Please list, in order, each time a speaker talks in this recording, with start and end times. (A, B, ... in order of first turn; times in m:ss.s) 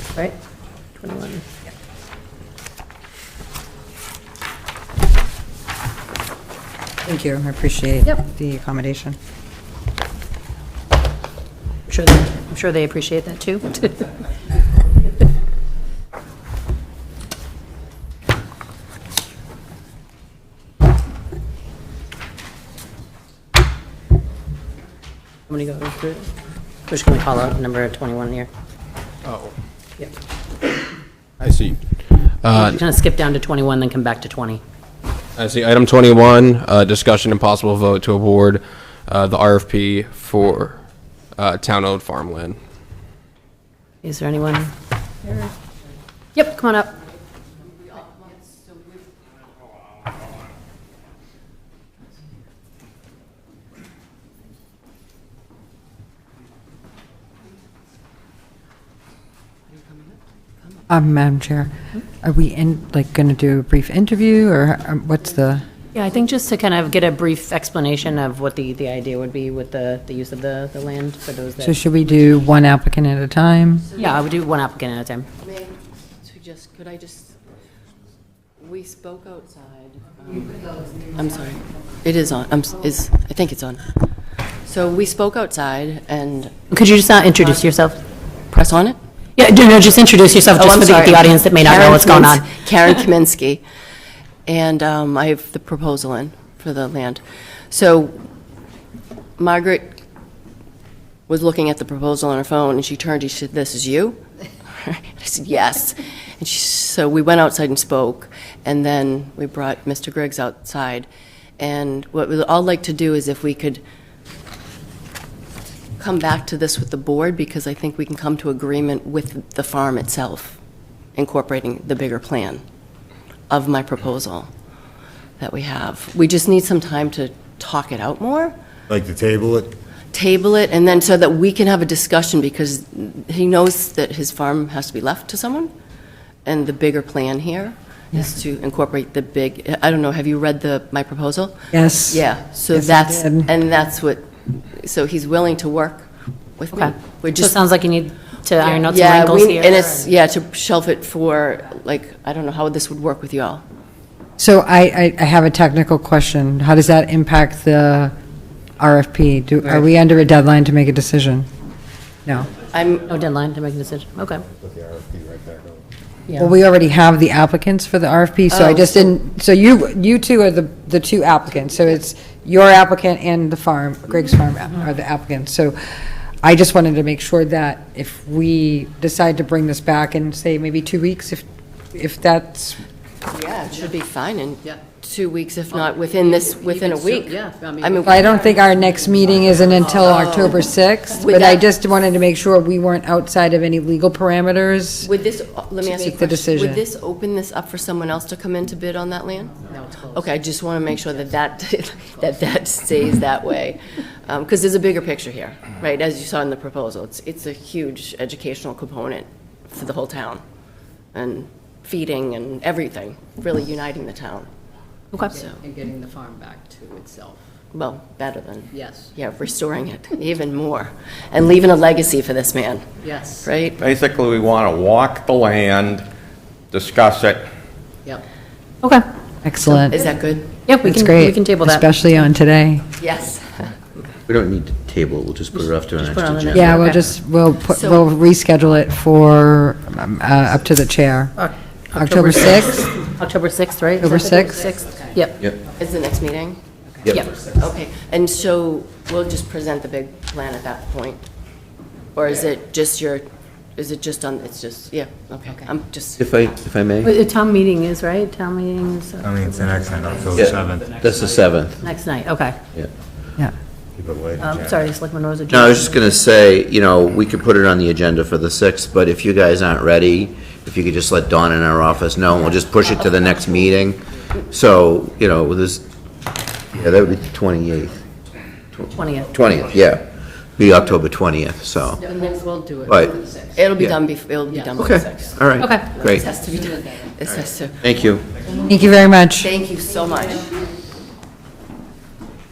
0:01.0-0:01.4 A
0:07.1-0:09.2 B
0:11.9-0:14.1 A
0:25.5-0:26.3 A
0:26.9-0:28.5 A
0:31.4-0:31.8 C
0:32.4-0:32.8 C
0:32.5-0:34.6 A
0:35.4-0:40.8 C
0:41.4-0:42.6 C
0:44.0-0:44.7 A
0:45.2-0:45.5 A
0:46.4-0:46.9 A
0:59.9-1:00.2 D
1:00.9-1:01.7 B
1:02.2-1:05.6 B
1:05.9-1:11.8 A
1:11.6-1:13.9 B
1:14.0-1:15.3 A
1:15.4-1:17.3 D
1:18.6-1:23.8 D
1:24.7-1:26.5 D
1:26.7-1:28.0 A
1:28.5-1:29.0 D
1:29.4-1:32.5 A
1:30.6-1:33.6 D
1:34.5-1:38.2 D
1:39.4-1:39.9 D
1:41.3-1:44.2 D
1:44.7-1:51.1 D
1:51.6-1:53.8 D
1:56.0-2:00.6 D
2:01.2-2:02.6 D
2:03.5-2:04.5 D
2:05.4-2:08.6 D
2:08.9-2:09.7 E
2:10.1-2:15.7 D
2:16.4-2:27.6 D
2:21.7-2:23.5 B
2:26.7-2:30.1 A
2:28.6-2:33.6 D
2:34.4-2:38.1 B
2:38.8-2:41.5 B
2:42.7-2:43.1 D
2:43.1-2:44.4 A
2:44.6-2:45.8 E
2:46.4-2:55.8 B
2:48.5-2:49.1 D
2:56.4-3:02.8 B
3:03.3-3:08.5 D
3:05.7-3:09.9 F
3:08.0-3:15.1 B
3:09.9-3:11.6 D
3:15.0-3:30.4 D
3:15.8-3:16.8 B
3:31.1-3:34.5 D
3:35.1-3:35.4 A
3:35.3-3:35.6 D
3:35.4-3:37.4 F
3:37.7-3:42.9 D
3:38.7-3:39.1 F
3:43.0-3:43.5 F
3:43.4-3:43.8 D
3:43.8-3:46.1 G
3:46.7-3:47.5 G
3:49.4-3:50.2 B
3:49.7-3:50.5 D
3:50.7-3:51.9 A
3:50.8-3:52.9 B
3:53.0-3:53.7 D
3:54.3-3:57.0 H
3:56.0-3:57.0 A
3:56.5-4:01.4 B
3:57.7-3:58.0 D
4:01.4-4:05.4 A
4:02.0-4:02.8 B
4:04.0-4:04.7 B
4:05.8-4:06.6 D
4:07.1-4:07.3 A
4:07.5-4:11.2 D
4:12.1-4:16.2 D
4:16.2-4:17.1 H
4:17.0-4:20.2 A
4:19.2-4:21.0 E
4:20.4-4:21.8 H
4:20.7-4:21.2 F
4:21.8-4:22.6 A
4:24.0-4:24.9 E
4:24.4-4:26.2 A
4:25.5-4:35.8 H
4:32.8-4:33.9 D
4:36.7-4:38.0 H
4:38.8-4:42.0 H
4:38.9-4:39.4 A
4:41.8-4:43.7 F
4:42.0-4:42.6 D
4:42.8-4:43.2 H
4:43.6-4:47.8 D
4:44.5-4:44.8 F
4:44.8-4:46.3 H
4:45.6-4:45.9 A
4:47.8-4:48.4 H
4:48.5-4:49.5 B
4:49.4-4:50.6 D